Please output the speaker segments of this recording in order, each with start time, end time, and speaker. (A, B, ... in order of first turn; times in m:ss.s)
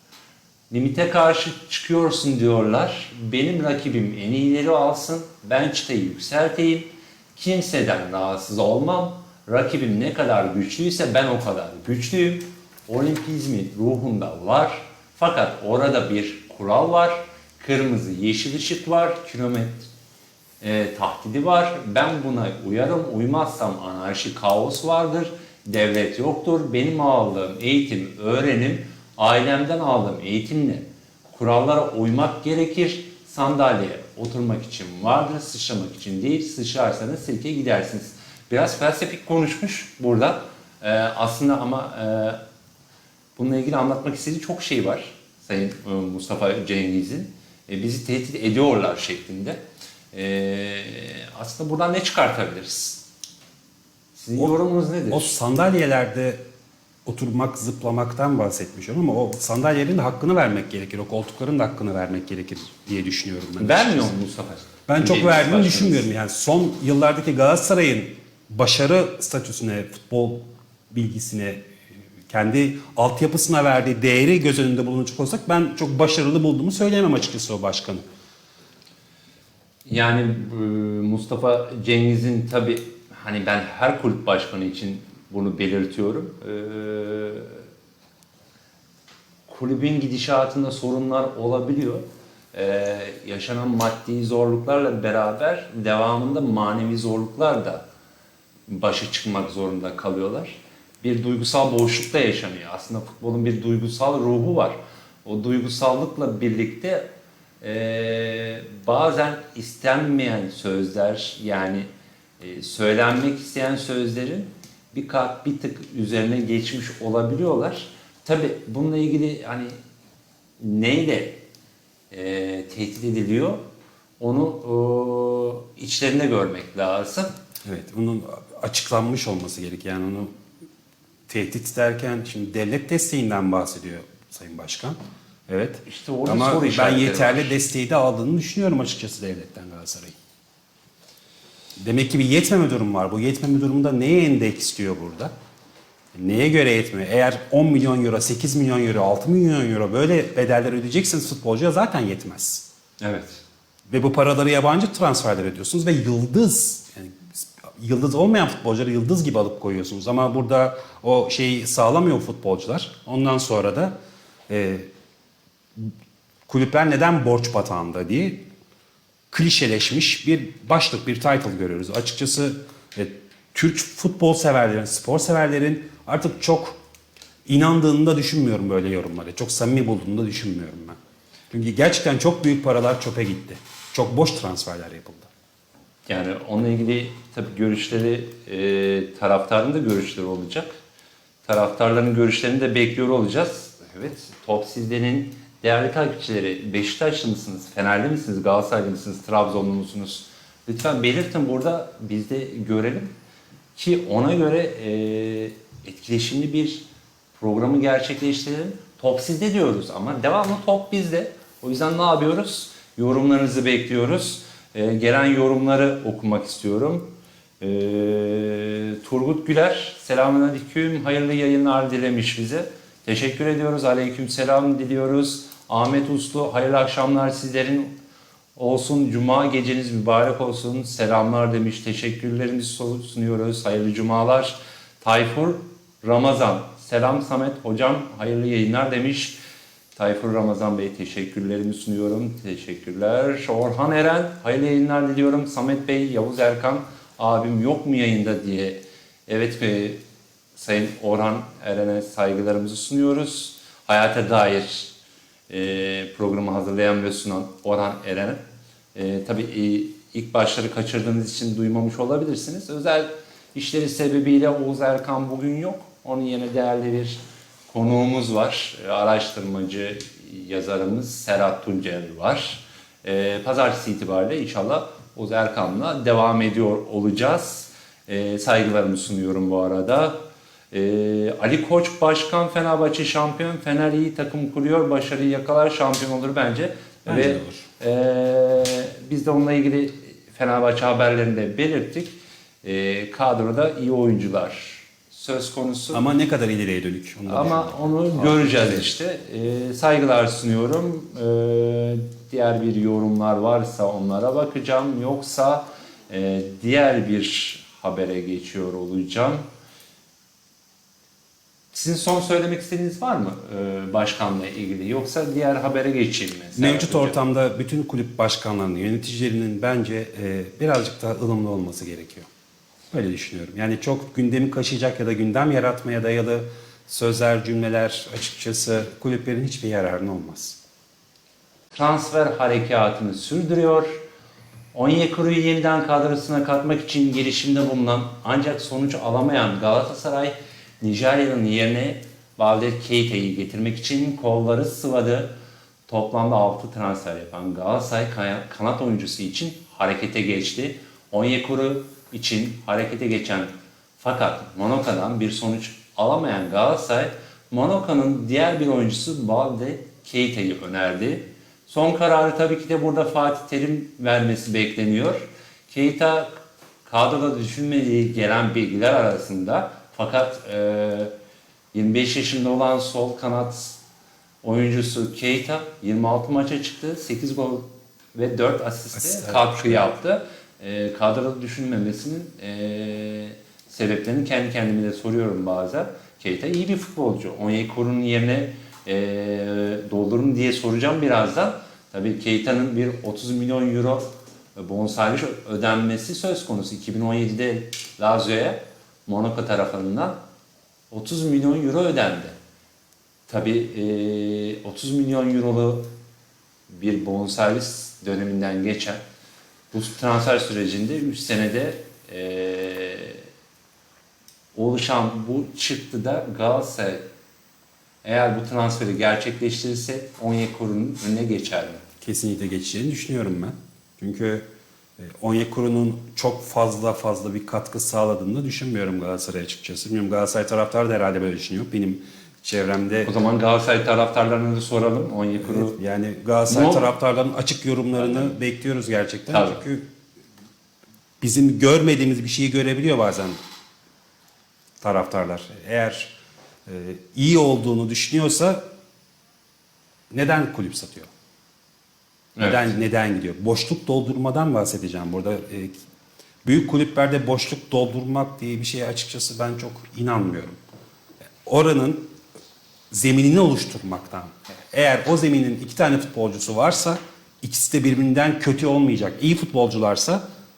0:00.7-0:19.9 A
0:20.6-0:42.4 A
0:43.4-0:49.6 A
0:50.1-0:53.0 A
0:54.1-0:55.3 A
0:55.1-0:56.4 B
0:57.0-1:04.1 B
1:03.6-1:06.0 A
1:04.9-1:11.6 B
1:12.3-1:18.0 B
1:19.9-1:27.6 A
1:29.5-1:37.8 A
1:38.7-1:47.1 A
1:47.6-1:51.9 A
1:52.4-1:59.8 A
2:00.6-2:01.4 A
2:02.1-2:03.6 A
2:04.2-2:07.3 A
2:07.6-2:10.3 B
2:11.3-2:15.0 B
2:15.5-2:20.1 B
2:15.8-2:17.6 A
2:21.8-2:25.3 B
2:26.1-2:32.6 B
2:33.0-2:33.4 A
2:33.9-2:43.9 B
2:44.5-2:44.9 B
2:46.5-2:48.4 B
2:49.3-2:56.8 B
2:57.4-3:01.0 B
3:01.5-3:05.3 B
3:06.1-3:10.7 A
3:11.4-3:23.1 A
3:23.7-3:26.8 A
3:27.4-3:47.9 A
3:48.6-3:59.4 A
3:59.9-4:10.0 A
4:10.6-4:14.9 A
4:15.5-4:18.4 A
4:18.9-4:56.0 A
4:47.0-4:47.6 B
4:55.9-4:58.9 B
4:57.3-5:09.4 A
5:11.7-5:17.2 A
5:16.5-5:22.3 B
5:22.9-5:30.6 B
5:31.7-5:34.0 A
5:34.7-5:45.3 A
5:45.9-6:11.1 A
6:11.7-6:13.8 A
6:14.4-6:40.2 A
6:18.9-6:19.8 B
6:40.9-6:42.3 A
6:43.3-6:45.9 A
6:46.7-6:49.0 A
6:49.7-6:53.2 A
6:54.5-6:57.0 A
6:58.0-7:01.8 A
7:02.0-7:04.4 B
7:05.0-7:13.1 B
7:13.0-7:15.8 A
7:15.4-7:19.8 B
7:16.5-7:16.9 A
7:18.0-7:18.3 A
7:19.3-7:19.6 A
7:21.2-7:23.4 B
7:24.8-7:26.1 B
7:26.6-7:28.6 B
7:30.1-7:31.1 B
7:32.4-7:32.7 A
7:32.4-7:35.7 B
7:36.4-7:40.6 B
7:41.4-7:42.1 B
7:42.9-7:50.2 B